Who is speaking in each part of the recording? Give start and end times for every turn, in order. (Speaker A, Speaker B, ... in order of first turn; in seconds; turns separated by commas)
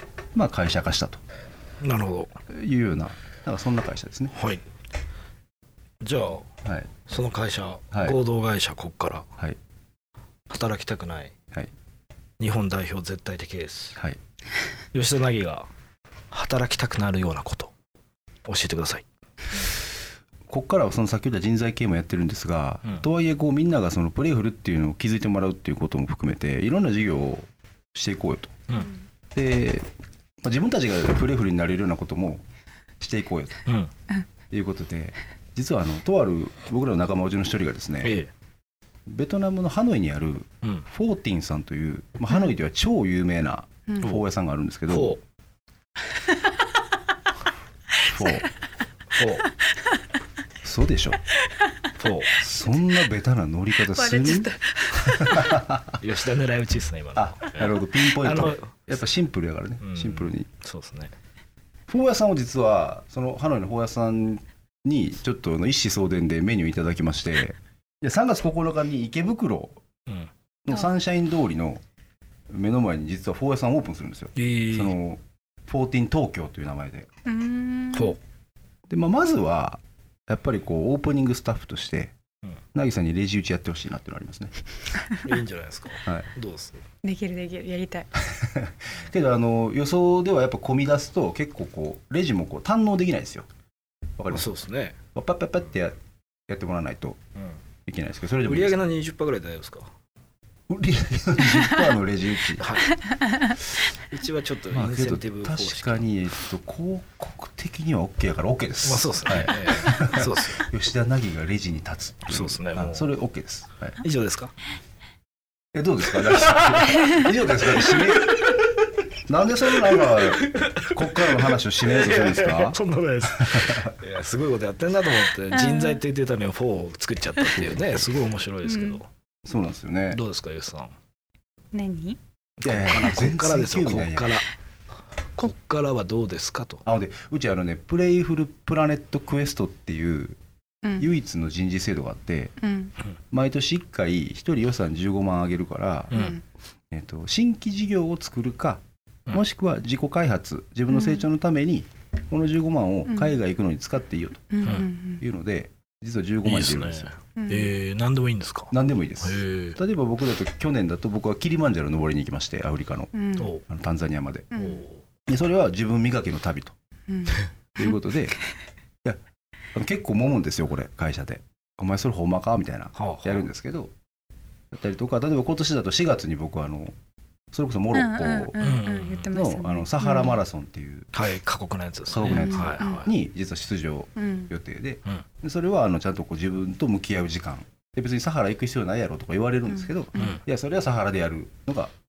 Speaker A: 0.3-1.2, Speaker B: 1.8-2.4, Speaker A: 2.5-4.3, Speaker B: 4.3-4.6, Speaker B: 6.0-6.5, Speaker A: 6.6-6.9, Speaker B: 7.0-9.2, Speaker A: 7.9-8.2, Speaker B: 10.5-11.3, Speaker B: 12.4-14.0, Speaker B: 14.9-15.7, Speaker B: 16.3-17.7, Speaker B: 18.4-19.0, Speaker A: 20.5-28.6, Speaker A: 29.3-29.9, Speaker A: 30.4-32.4, Speaker A: 33.0-33.6, Speaker B: 33.6-33.9, Speaker A: 34.5-38.2, Speaker B: 38.0-38.3, Speaker A: 39.1-45.2, Speaker B: 44.9-45.2, Speaker C: 48.0-48.4, Speaker A: 48.1-48.5, Speaker B: 49.1-49.5, Speaker A: 50.6-51.2, Speaker C: 51.5-51.9, Speaker B: 52.0-52.4, Speaker A: 52.4-54.5, Speaker C: 53.9-55.5, Speaker A: 55.0-56.0, Speaker B: 56.0-59.0, Speaker A: 57.1-60.5, Speaker B: 59.8-61.1, Speaker A: 61.9-69.8, Speaker A: 70.6-71.8, Speaker A: 72.5-77.1, Speaker B: 74.3-74.9, Speaker C: 77.2-78.2, Speaker B: 77.9-78.2, Speaker A: 78.9-82.1, Speaker A: 82.7-84.5, Speaker B: 85.2-86.8, Speaker C: 87.0-88.2, Speaker A: 88.3-93.5, Speaker A: 94.2-94.5, Speaker B: 94.3-95.0, Speaker A: 95.1-96.0, Speaker A: 96.5-97.2, Speaker A: 97.9-98.8, Speaker B: 98.4-99.9, Speaker A: 100.7-102.8, Speaker B: 102.6-103.1, Speaker C: 103.1-103.5, Speaker B: 103.7-106.0, Speaker A: 104.7-114.0, Speaker B: 108.8-110.7, Speaker B: 112.3-113.1, Speaker B: 114.0-114.5, Speaker A: 115.7-118.5, Speaker B: 116.2-118.6, Speaker A: 119.3-122.8, Speaker B: 119.8-129.1, Speaker A: 123.3-123.9, Speaker C: 125.5-126.0, Speaker A: 127.5-128.0, Speaker C: 128.6-129.0, Speaker A: 129.4-130.2, Speaker B: 130.1-130.9, Speaker C: 131.7-132.2, Speaker B: 132.6-134.5, Speaker A: 132.6-134.4, Speaker B: 135.4-136.8, Speaker A: 136.8-140.4, Speaker C: 140.8-141.1, Speaker A: 141.0-142.5, Speaker C: 142.6-142.9, Speaker A: 143.3-146.2, Speaker B: 146.1-146.4, Speaker C: 146.1-146.4, Speaker A: 146.9-157.1, Speaker C: 150.9-151.2, Speaker C: 153.1-153.3, Speaker C: 154.5-155.2, Speaker B: 154.6-154.9, Speaker B: 156.4-159.8, Speaker C: 157.3-157.7, Speaker A: 158.7-164.6, Speaker C: 163.1-163.5, Speaker B: 163.4-163.6, Speaker C: 164.5-164.8, Speaker B: 164.5-165.0, Speaker A: 165.2-166.7, Speaker C: 167.1-167.9, Speaker A: 167.8-168.4, Speaker A: 169.7-173.9, Speaker B: 172.9-173.5, Speaker A: 174.7-176.9, Speaker A: 177.5-178.6, Speaker C: 177.9-180.4, Speaker B: 178.6-179.3, Speaker A: 179.3-181.1, Speaker B: 181.1-183.1, Speaker A: 182.1-191.9, Speaker C: 182.2-183.1, Speaker C: 184.2-184.5, Speaker C: 189.7-190.4, Speaker B: 190.1-190.4